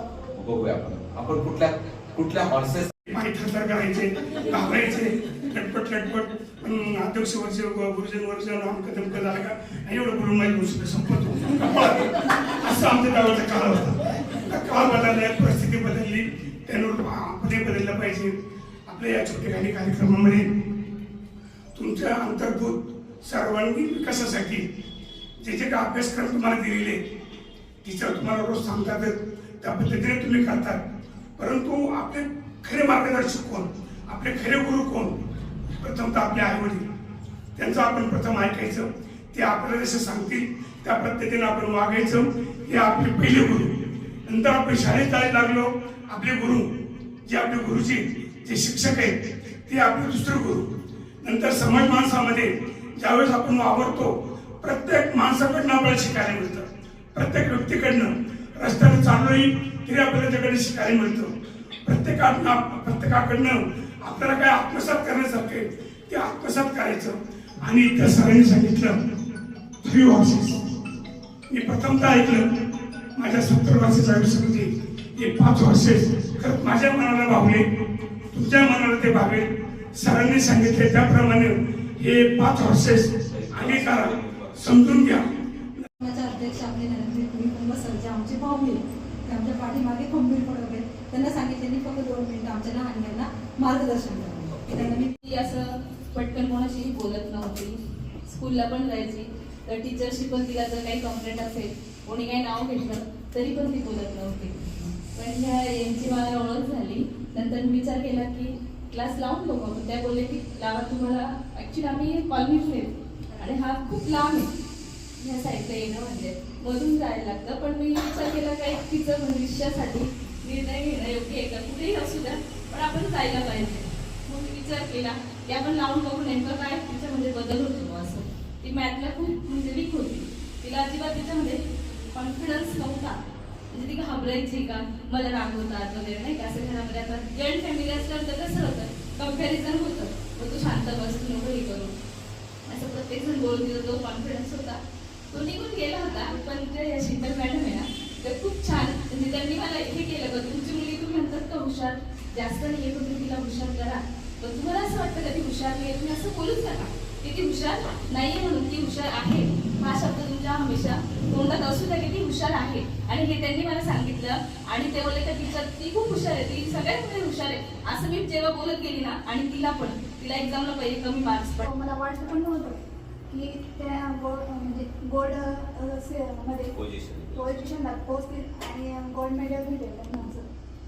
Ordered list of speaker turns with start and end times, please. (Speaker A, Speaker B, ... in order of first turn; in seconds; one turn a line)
Speaker A: 0.3-2.9
Speaker B: 3.1-18.4
Speaker B: 18.9-20.4
Speaker B: 21.7-24.6
Speaker B: 25.4-27.0
Speaker B: 27.8-30.8
Speaker B: 31.4-35.1
Speaker B: 35.8-36.8
Speaker B: 37.5-43.7
Speaker B: 44.3-46.6
Speaker B: 47.3-49.1
Speaker B: 49.7-50.6
Speaker B: 51.2-61.3
Speaker B: 61.9-69.0
Speaker B: 69.8-70.6
Speaker B: 71.5-72.5
Speaker B: 73.2-77.6
Speaker B: 78.3-85.2
Speaker A: 83.2-84.8
Speaker C: 86.0-95.0
Speaker D: 95.2-114.5
Speaker D: 115.2-133.2
Speaker D: 133.7-141.9
Speaker D: 142.6-144.8
Speaker D: 145.3-171.6
Speaker E: 171.6-176.7
Speaker A: 176.7-177.5
Speaker E: 177.3-180.4